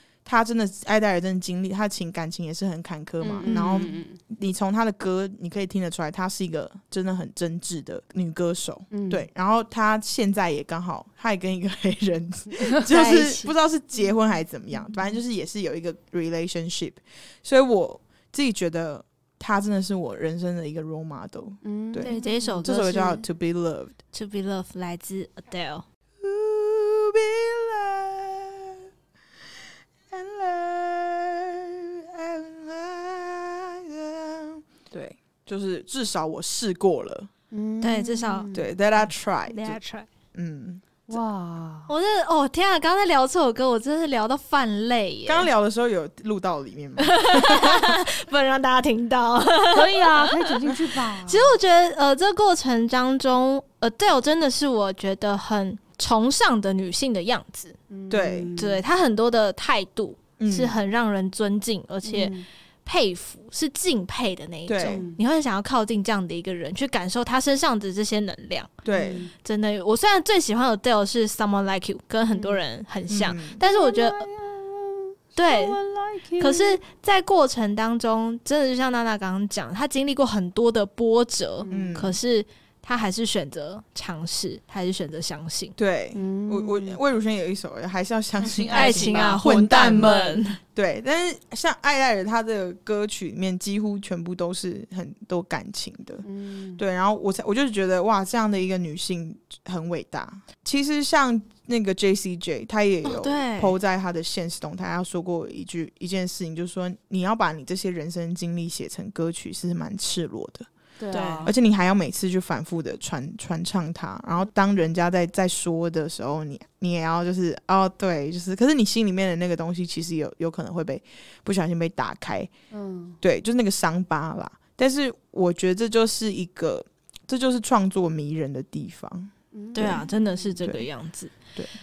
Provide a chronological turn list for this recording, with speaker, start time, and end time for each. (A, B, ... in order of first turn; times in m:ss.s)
0:00.2-0:24.0 A
0:03.2-0:04.2 B
0:08.9-0:09.3 B
0:12.9-0:13.5 C
0:21.6-0:22.6 B
0:22.0-0:23.2 C
0:24.1-0:25.8 C
0:26.2-0:28.7 A
0:30.1-0:37.3 A
0:37.5-0:38.7 B
0:37.8-0:38.5 C
0:38.5-0:39.8 A
0:39.5-0:40.1 C
0:40.3-0:40.8 A
0:41.1-0:41.9 B
0:41.9-0:45.5 C
0:45.2-0:48.0 A
0:47.0-0:57.8 C
0:49.7-0:51.6 B
0:57.9-0:58.8 B
0:58.1-0:58.5 A
0:58.5-1:02.3 C
1:00.4-1:00.8 A
1:02.0-1:02.4 B
1:02.8-1:14.3 C
1:04.7-1:05.0 A
1:04.8-1:05.2 B
1:08.8-1:09.2 A
1:08.9-1:09.3 B
1:12.3-1:12.6 B
1:13.1-1:13.6 A
1:13.6-1:16.8 B
1:15.4-1:15.8 C
1:16.4-1:25.7 C
1:21.6-1:22.0 B
1:21.7-1:22.2 A
1:25.8-1:30.1 A
1:26.1-1:27.0 B
1:28.4-1:30.5 B
1:28.7-1:30.6 C
1:30.7-1:36.2 A
1:36.2-1:36.8 B
1:36.8-1:50.7 A
1:43.0-1:43.8 C
1:51.0-1:51.5 B
1:51.1-1:51.5 C
1:51.4-2:02.5 A
2:02.7-2:03.2 B
2:03.2-2:10.0 A
2:09.5-2:10.1 B
2:09.7-2:11.3 C
2:10.6-2:10.8 A